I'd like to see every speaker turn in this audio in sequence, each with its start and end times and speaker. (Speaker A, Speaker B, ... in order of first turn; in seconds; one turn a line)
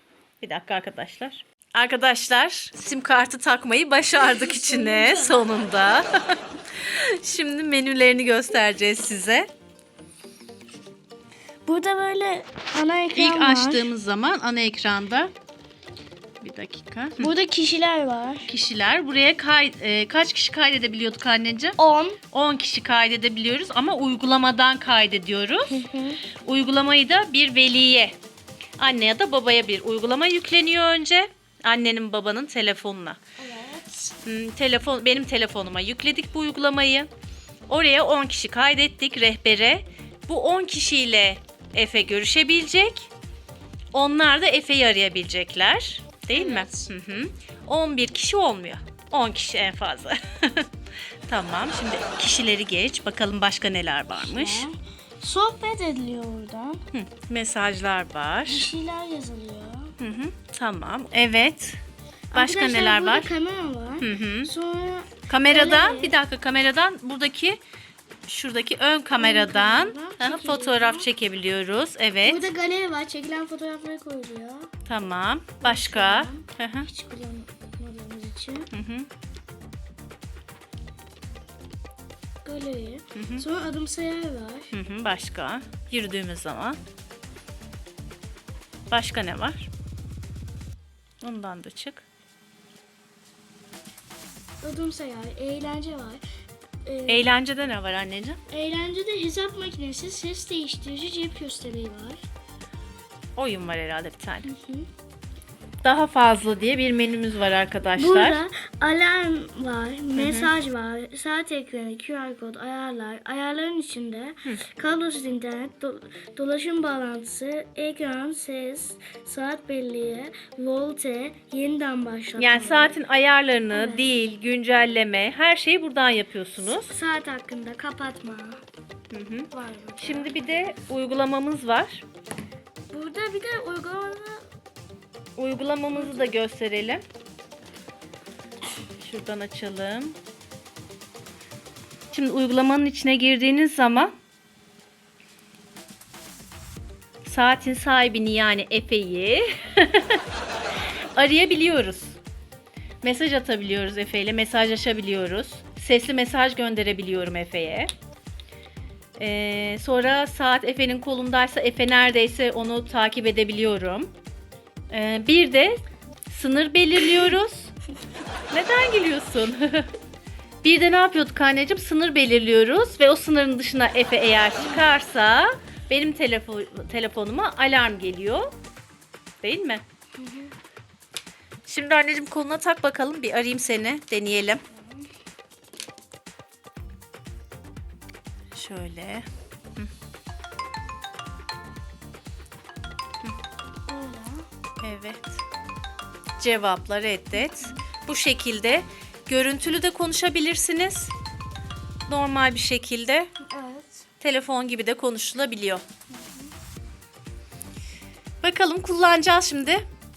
Speaker A: 0.4-9.5
Speaker B: 4.2-5.7
Speaker B: 11.6-13.9
Speaker A: 13.1-15.3
Speaker A: 16.4-17.3
Speaker B: 17.2-18.5
Speaker A: 18.5-21.8
Speaker B: 21.8-22.2
Speaker A: 22.3-25.8
Speaker B: 25.7-26.2
Speaker A: 26.4-28.1
Speaker A: 28.8-33.2
Speaker B: 33.4-34.1
Speaker A: 34.2-37.1
Speaker A: 37.7-43.1
Speaker A: 43.9-50.7
Speaker B: 46.3-46.9
Speaker A: 51.3-54.7
Speaker B: 54.1-56.8
Speaker A: 56.9-58.7
Speaker B: 58.5-59.9
Speaker A: 60.0-61.8
Speaker B: 62.3-66.2
Speaker A: 62.3-63.3
Speaker A: 64.0-64.5
Speaker A: 65.3-67.6
Speaker A: 68.3-72.5
Speaker B: 69.1-71.1
Speaker B: 72.2-74.7
Speaker A: 74.8-76.9
Speaker B: 75.6-78.7
Speaker A: 78.7-79.1
Speaker B: 82.4-84.7
Speaker A: 83.1-83.4
Speaker A: 84.7-86.8
Speaker A: 88.9-89.7
Speaker A: 91.2-92.0
Speaker B: 94.6-96.2
Speaker B: 96.8-97.3
Speaker A: 97.1-98.4
Speaker B: 98.5-102.2
Speaker A: 103.3-104.5
Speaker B: 104.5-104.9
Speaker A: 105.8-108.4
Speaker B: 108.0-123.0
Speaker A: 110.2-110.5
Speaker A: 122.4-126.9
Speaker B: 123.7-124.1
Speaker B: 126.6-128.6
Speaker A: 129.1-132.0
Speaker B: 129.5-130.4
Speaker B: 132.9-134.5
Speaker A: 135.4-137.0
Speaker B: 135.9-136.3
Speaker A: 139.0-140.2
Speaker A: 142.1-144.1
Speaker A: 147.2-150.2
Speaker A: 151.1-152.2
Speaker A: 153.0-157.9
Speaker A: 159.2-164.1
Speaker A: 164.9-167.7
Speaker A: 168.5-169.9
Speaker A: 170.6-178.5
Speaker A: 179.4-179.8
Speaker B: 180.2-180.5
Speaker A: 181.7-184.6
Speaker B: 184.7-185.1
Speaker A: 188.5-189.9
Speaker B: 193.9-194.5
Speaker A: 194.8-195.4
Speaker A: 196.4-201.1
Speaker B: 197.3-197.8
Speaker A: 202.1-203.3
Speaker B: 203.4-204.1
Speaker A: 204.2-205.8
Speaker B: 206.1-206.5
Speaker A: 208.4-209.8